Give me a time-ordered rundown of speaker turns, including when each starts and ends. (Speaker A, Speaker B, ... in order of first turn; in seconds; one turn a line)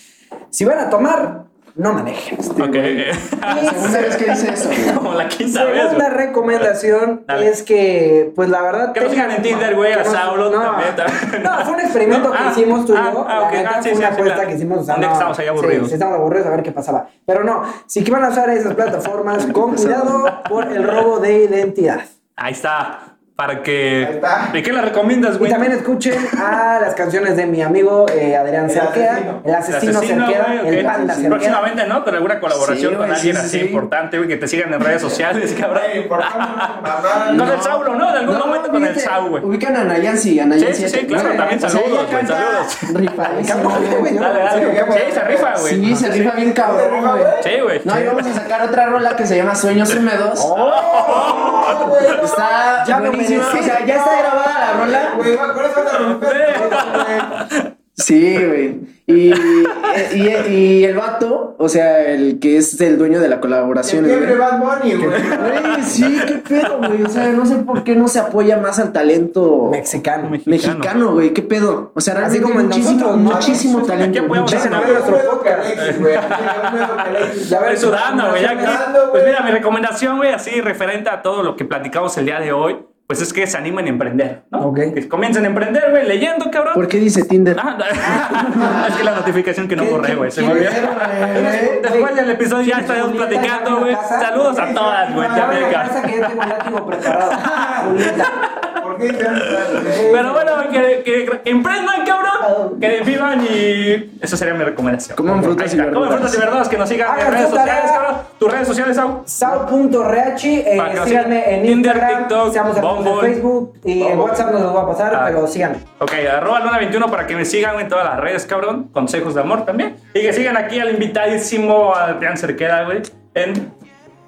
Speaker A: 0.5-2.7
Speaker B: 2.6-6.1
Speaker C: 2.6-5.0
Speaker A: 3.5-4.3
Speaker A: 5.5-22.1
Speaker B: 8.9-15.9
Speaker C: 19.6-20.1
Speaker B: 20.0-21.0
Speaker B: 22.4-26.4
Speaker D: 24.0-24.6
Speaker A: 25.4-31.6
Speaker D: 28.7-29.4
Speaker B: 29.7-39.5
Speaker C: 30.8-31.5
Speaker C: 32.5-33.8
Speaker D: 35.7-37.6
Speaker C: 37.3-44.2
Speaker B: 40.6-42.9
Speaker A: 41.1-45.2
Speaker B: 43.6-46.2
Speaker D: 44.4-47.5
Speaker C: 45.6-50.6
Speaker B: 47.4-48.2
Speaker A: 50.4-51.8
Speaker B: 50.5-52.0
Speaker D: 51.0-52.8
Speaker C: 51.2-55.3
Speaker A: 52.8-53.8
Speaker D: 53.5-57.4
Speaker B: 55.8-57.7
Speaker C: 58.0-64.4
Speaker B: 59.3-60.0
Speaker D: 63.9-65.9
Speaker A: 65.0-65.3
Speaker C: 65.3-69.8
Speaker B: 65.4-67.0
Speaker A: 69.6-70.3
Speaker B: 70.2-70.9
Speaker C: 70.5-74.8
Speaker A: 72.2-73.7
Speaker D: 73.2-79.4
Speaker B: 73.9-75.2
Speaker A: 74.3-75.7
Speaker B: 75.8-86.9
Speaker A: 77.5-78.8
Speaker A: 84.6-85.0
Speaker C: 86.7-88.9
Speaker B: 87.5-96.3
Speaker A: 88.0-88.8
Speaker A: 89.8-98.4
Speaker C: 90.4-91.8
Speaker D: 94.5-95.8
Speaker B: 97.4-98.7
Speaker D: 98.8-100.1
Speaker B: 99.3-109.3
Speaker A: 99.8-100.6
Speaker A: 102.4-102.8
Speaker C: 105.2-106.5
Speaker A: 107.1-108.0
Speaker A: 109.2-115.8
Speaker B: 110.8-113.4
Speaker D: 114.0-114.5
Speaker B: 115.1-115.4
Speaker B: 116.0-123.7